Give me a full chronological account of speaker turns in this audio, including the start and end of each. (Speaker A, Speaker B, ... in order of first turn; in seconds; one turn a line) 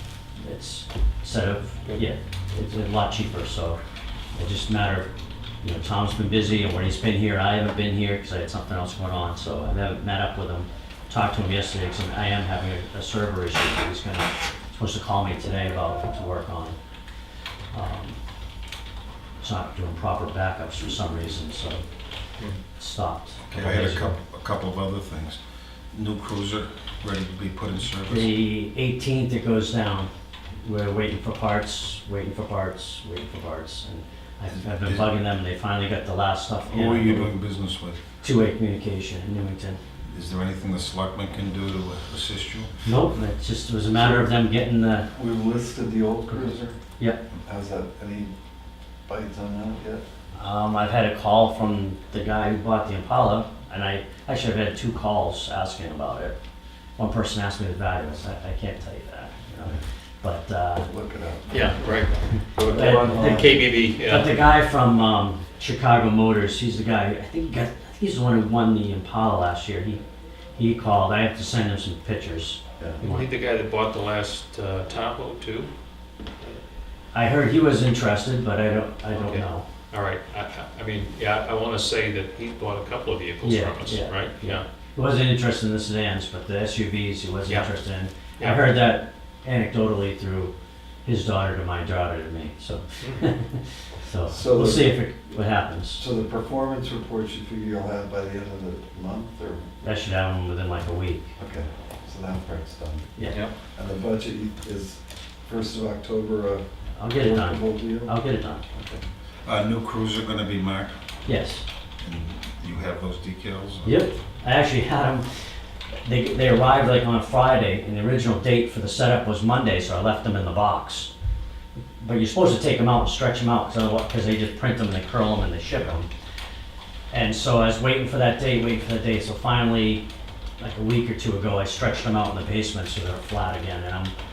Speaker A: 0.4-3.8
Speaker A: 4.3-5.1
Speaker A: 5.6-16.8
Speaker A: 17.7-18.2
Speaker A: 19.4-21.8
Speaker A: 22.8-24.2
Speaker B: 23.5-25.4
Speaker B: 25.9-28.3
Speaker A: 28.1-37.3
Speaker B: 34.5-35.1
Speaker B: 36.7-38.0
Speaker A: 38.2-39.8
Speaker B: 40.1-42.7
Speaker A: 42.8-45.1
Speaker C: 43.9-44.3
Speaker C: 45.1-46.8
Speaker A: 46.3-47.2
Speaker C: 47.4-48.3
Speaker C: 49.1-50.0
Speaker A: 50.4-56.4
Speaker A: 57.0-60.9
Speaker C: 60.9-61.7
Speaker D: 61.5-64.3
Speaker A: 62.5-70.0
Speaker C: 62.5-63.7
Speaker A: 70.5-73.3
Speaker D: 73.0-75.7
Speaker A: 77.1-79.7
Speaker D: 79.1-84.6
Speaker A: 83.4-90.5
Speaker D: 88.4-88.6
Speaker A: 91.0-96.0
Speaker D: 93.0-93.3
Speaker C: 94.3-95.0
Speaker C: 96.0-99.7
Speaker A: 99.8-101.3
Speaker C: 101.4-103.1
Speaker A: 103.2-103.4
Speaker D: 103.2-103.5
Speaker C: 103.7-108.1
Speaker A: 107.0-108.6
Speaker B: 109.4-111.1
Speaker A: 111.2-111.6
Speaker B: 112.0-114.0
Speaker A: 113.8-115.3
Speaker A: 116.0-121.1
Speaker A: 122.0-126.1
Speaker A: 127.1-130.0
Speaker A: 130.6-134.1